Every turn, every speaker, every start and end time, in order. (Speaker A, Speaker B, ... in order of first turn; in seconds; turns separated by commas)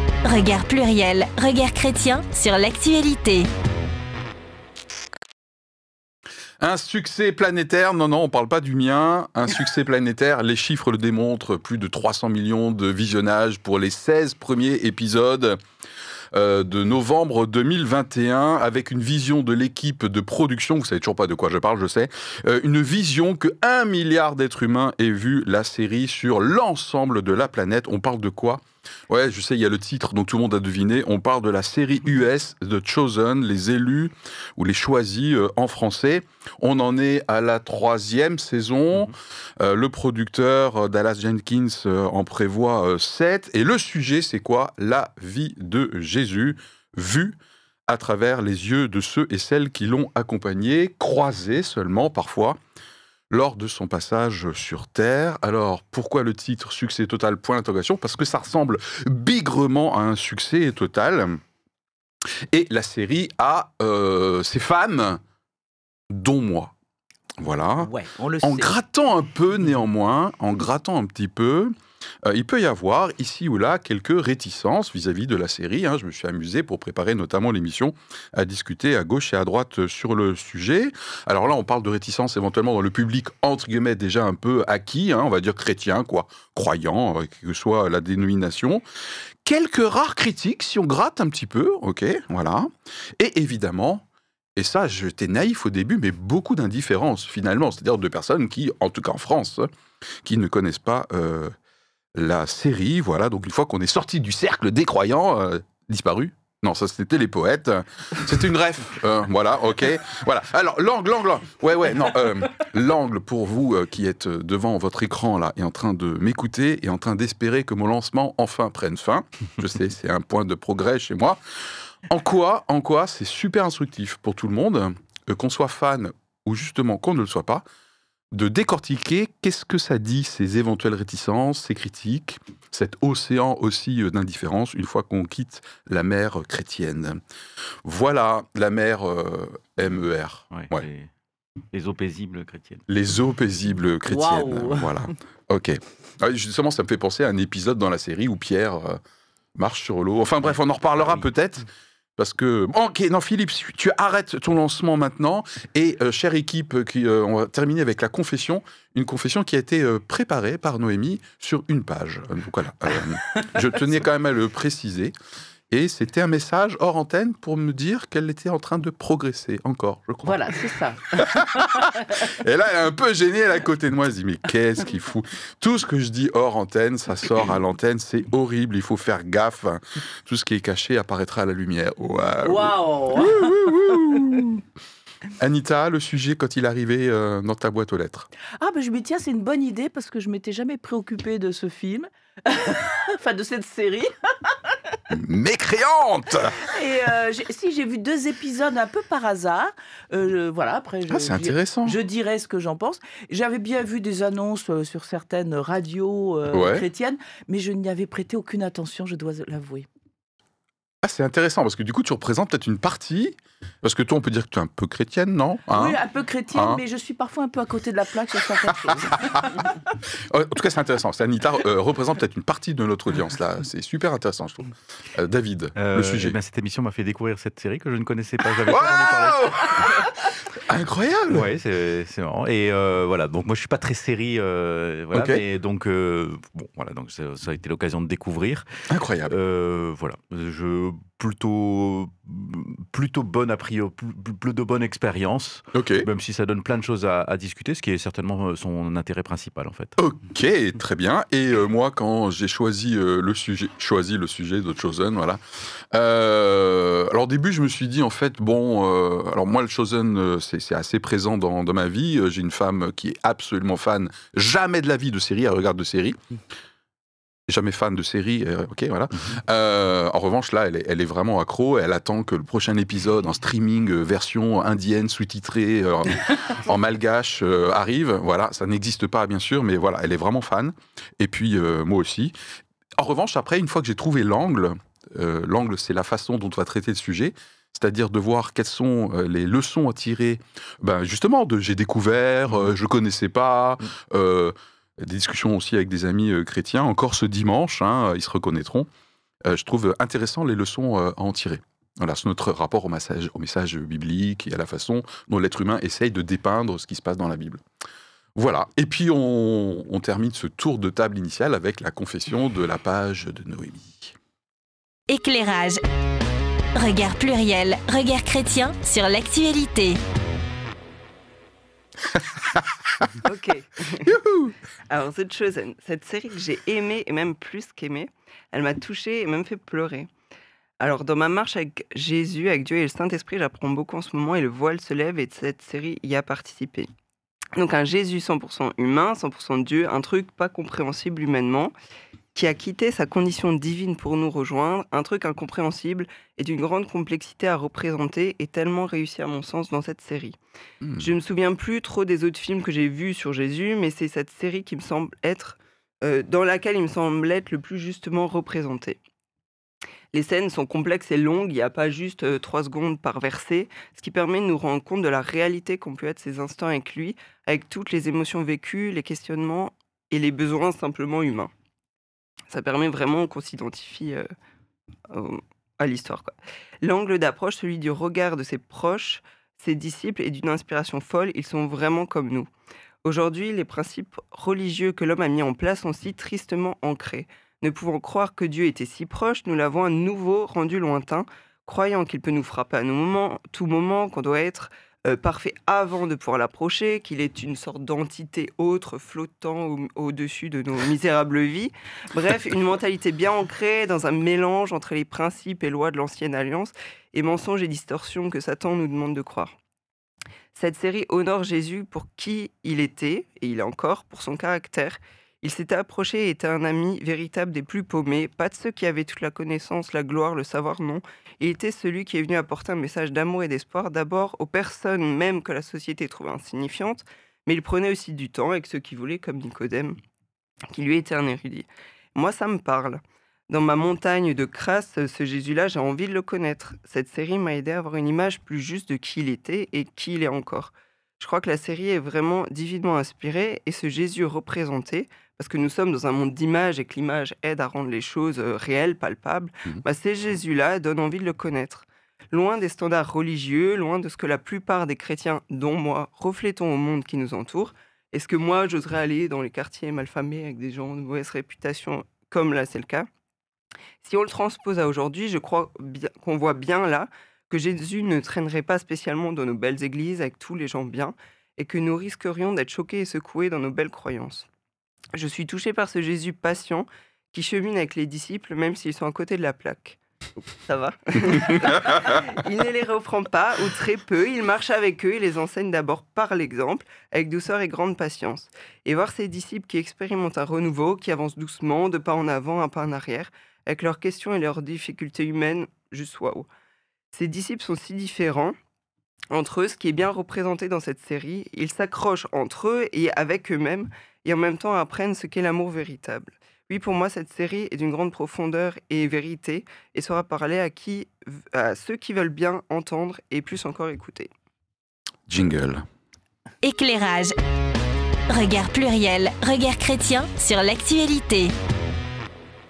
Speaker A: 0.2-3.5, Speaker B: 6.6-15.6, Speaker B: 16.3-52.6, Speaker B: 53.3-61.4, Speaker B: 62.5-65.2, Speaker B: 66.1-66.7, Speaker B: 67.4-71.7, Speaker C: 67.8-68.7, Speaker B: 72.2-88.8, Speaker B: 89.4-94.0, Speaker B: 94.6-99.7, Speaker B: 100.2-101.5, Speaker B: 102.2-121.4, Speaker B: 122.1-127.7, Speaker B: 128.3-137.2, Speaker B: 137.8-140.9, Speaker D: 140.5-141.1, Speaker D: 141.7-142.8, Speaker B: 142.9-149.0, Speaker C: 144.1-144.9, Speaker B: 149.6-165.1, Speaker B: 165.7-170.7, Speaker C: 170.2-172.3, Speaker B: 171.2-184.6, Speaker C: 182.4-183.7, Speaker B: 185.4-188.3, Speaker C: 188.6-194.6, Speaker B: 195.1-196.7, Speaker C: 196.6-209.9, Speaker B: 201.1-202.0, Speaker B: 206.5-206.8, Speaker B: 211.0-216.0, Speaker C: 215.7-219.5, Speaker B: 216.5-216.8, Speaker B: 219.0-219.5, Speaker B: 220.1-226.4, Speaker D: 225.8-230.1, Speaker B: 228.7-231.5, Speaker D: 231.3-238.7, Speaker B: 235.1-235.4, Speaker B: 238.9-239.3, Speaker D: 239.3-249.9, Speaker B: 245.7-246.1, Speaker B: 250.0-266.2, Speaker B: 267.5-282.4, Speaker B: 283.0-298.9, Speaker B: 299.4-307.6, Speaker B: 308.4-314.1, Speaker A: 315.1-315.8, Speaker A: 316.8-320.0, Speaker B: 322.1-323.1, Speaker E: 323.2-324.2, Speaker B: 324.1-324.6, Speaker E: 324.9-330.1, Speaker E: 330.8-336.9, Speaker E: 337.6-341.7, Speaker E: 342.3-350.4, Speaker B: 350.8-351.1, Speaker E: 351.0-359.0, Speaker E: 360.1-371.5, Speaker E: 372.5-374.3, Speaker E: 375.1-382.5, Speaker E: 383.0-409.5, Speaker E: 410.5-430.0, Speaker E: 430.7-463.1, Speaker E: 464.0-474.5, Speaker E: 475.1-496.5, Speaker B: 481.3-482.1, Speaker E: 497.1-498.6, Speaker E: 499.3-514.3, Speaker B: 515.3-515.8, Speaker A: 516.6-517.4, Speaker A: 518.3-521.5